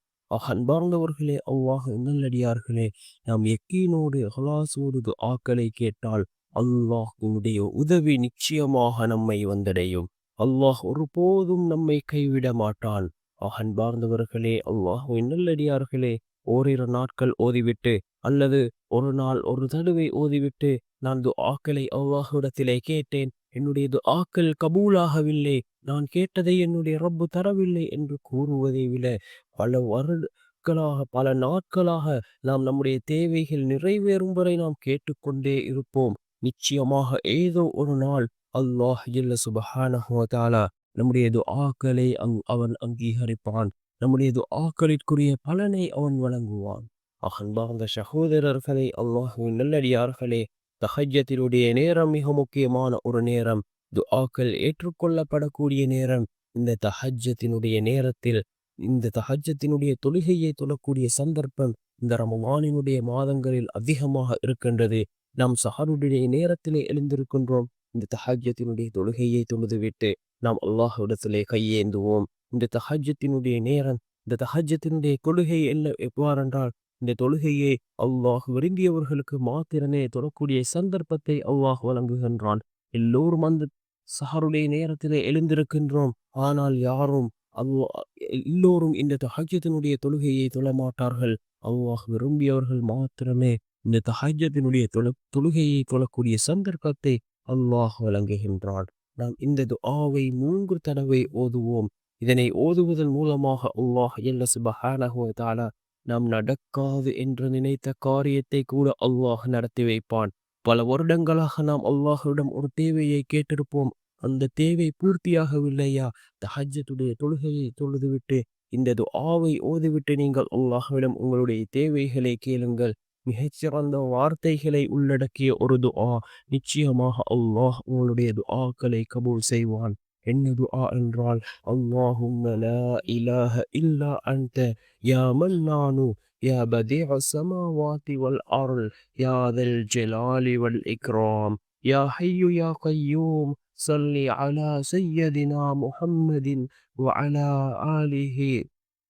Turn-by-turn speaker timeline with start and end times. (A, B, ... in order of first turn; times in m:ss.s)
0:00.4-0:58.4 A
0:58.9-1:23.7 A
1:24.2-1:27.9 A
1:28.5-2:28.5 A